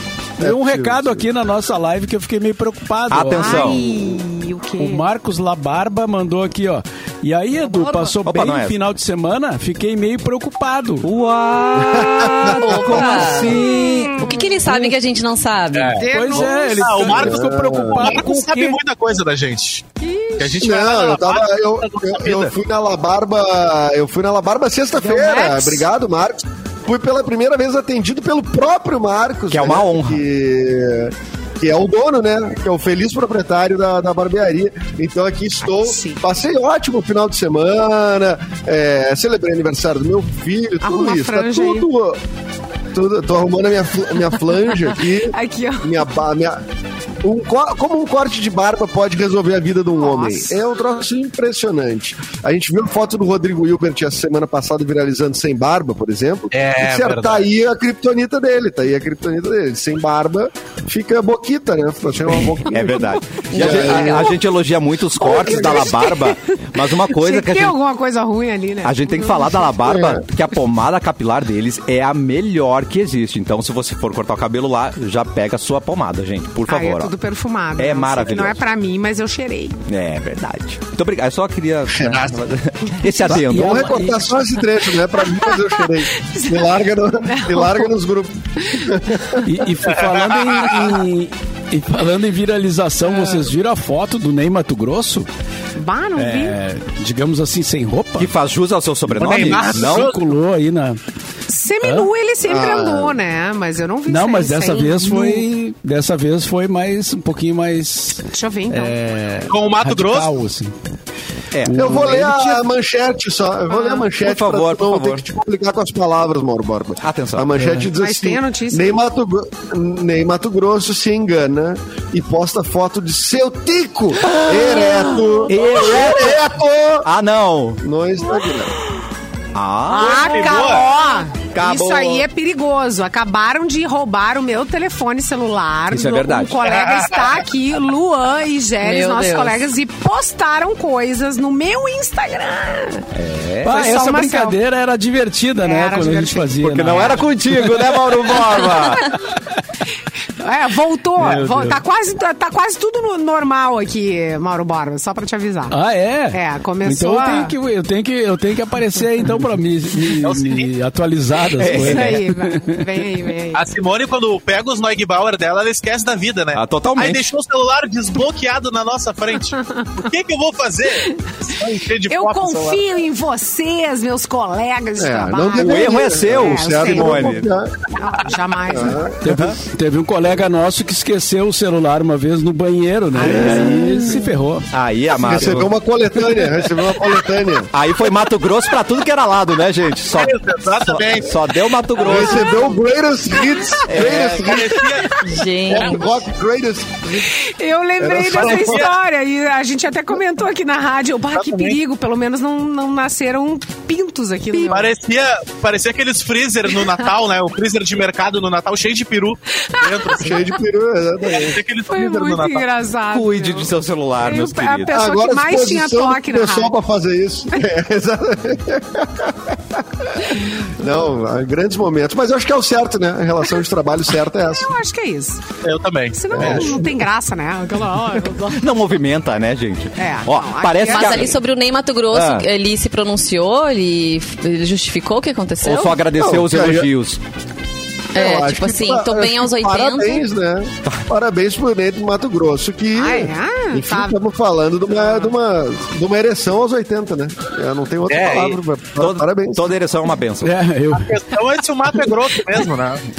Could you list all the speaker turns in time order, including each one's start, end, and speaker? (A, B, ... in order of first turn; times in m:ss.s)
0:00.4-0:03.9 A
0:00.4-0:01.3 B
0:03.1-0:03.8 C
0:03.4-0:05.1 D
0:04.8-0:11.1 A
0:07.6-0:08.2 D
0:08.2-0:08.8 C
0:11.0-0:14.4 C
0:11.8-0:13.3 B
0:12.5-0:13.6 E
0:13.4-0:14.6 D
0:14.2-0:16.0 E
0:15.7-0:19.9 F
0:16.0-0:17.1 D
0:16.1-0:18.8 A
0:17.1-0:18.2 B
0:20.0-0:20.7 D
0:20.4-0:22.5 F
0:20.6-0:42.2 B
0:25.0-0:25.9 D
0:29.5-0:30.2 C
0:35.6-0:36.2 D
0:40.8-0:41.9 D
0:42.9-0:46.6 B
0:44.9-0:46.0 D
0:47.2-1:04.4 B
0:50.0-0:50.6 D
0:56.5-0:57.5 F
1:02.7-1:07.8 C
1:03.6-1:04.0 E
1:03.6-1:04.3 D
1:05.2-1:09.7 D
1:05.3-1:05.9 B
1:08.8-1:17.1 C
1:09.8-1:10.2 B
1:16.7-1:19.8 D
1:17.8-1:18.6 C
1:19.9-1:24.0 C
1:21.9-1:22.4 B
1:23.2-1:24.4 A
1:23.3-1:29.4 B
1:25.2-1:27.9 D
1:28.7-1:29.4 D
1:29.4-1:35.3 A
1:29.9-1:30.8 F
1:33.0-1:33.5 D
1:35.8-1:36.6 D
1:36.2-1:38.3 A
1:38.2-1:40.1 C
1:39.1-1:41.0 A
1:39.2-1:40.2 F
1:41.5-1:45.4 D
1:41.8-1:42.1 A
1:42.4-1:43.2 B
1:44.1-1:50.7 A
1:48.3-1:49.0 D
1:49.5-1:50.3 F
1:51.5-1:52.5 C
1:51.6-1:52.5 A
1:51.7-2:07.1 B
1:53.7-1:54.1 D
1:54.2-1:55.2 C
1:57.0-1:57.6 C
1:57.6-1:57.9 A
1:57.9-1:59.0 D
2:04.2-2:06.4 C
2:07.0-2:07.8 C
2:07.8-2:08.8 B
2:09.6-2:10.7 C
2:09.9-2:23.1 D
2:10.0-2:10.9 F
2:11.5-2:12.3 C
2:15.9-2:16.6 C
2:16.6-2:17.4 F
2:18.8-2:19.6 E
2:23.1-2:23.9 C
2:23.6-2:28.3 A
2:23.7-2:24.6 D
2:25.6-2:27.3 D
2:26.6-2:29.2 C
2:28.5-2:29.2 D
2:30.4-2:35.8 D
2:31.2-2:31.8 A
2:35.7-2:42.8 A
2:36.3-2:37.5 D
2:40.2-2:40.7 F
2:41.6-2:42.2 C
2:41.7-2:43.6 D
2:43.5-2:52.8 F
2:46.6-2:47.2 C
2:52.1-2:57.4 D
2:55.0-2:57.7 B
2:55.6-2:57.5 C
2:58.0-2:59.2 D
2:58.7-2:59.2 B
2:59.2-3:04.7 A
2:59.3-2:59.6 C
3:03.2-3:04.2 C
3:03.4-3:03.8 B
3:04.7-3:05.8 C
3:05.2-3:07.7 B
3:07.7-3:12.6 C
3:10.1-3:11.4 F
3:12.0-3:14.8 B
3:12.0-3:12.8 D
3:13.4-3:13.8 D
3:13.9-3:14.8 C
3:14.4-3:15.2 F
3:14.8-3:15.4 D
3:15.2-3:16.1 E
3:15.7-3:17.3 B
3:17.1-3:25.0 D
3:18.0-3:18.9 B
3:18.3-3:18.9 F
3:21.3-3:21.8 F
3:24.5-3:30.5 F
3:29.7-3:30.5 D
3:30.2-3:31.6 B
3:31.3-3:32.7 F
3:31.9-3:36.7 D
3:33.1-3:35.0 C
3:34.9-3:44.7 B
3:44.5-3:45.4 D
3:45.6-3:46.8 F
3:46.1-3:48.6 D
3:46.3-3:46.9 B
3:48.5-3:51.4 C
3:50.0-3:51.4 D
3:50.9-3:56.0 E
3:52.1-3:52.5 C
3:55.6-3:57.2 C
3:56.2-3:56.9 B
3:58.1-4:00.2 E
3:58.1-4:09.7 B
4:03.0-4:04.2 D
4:05.0-4:05.4 D
4:08.1-4:08.6 F
4:09.0-4:10.6 C
4:10.4-4:11.4 A
4:10.9-4:13.0 F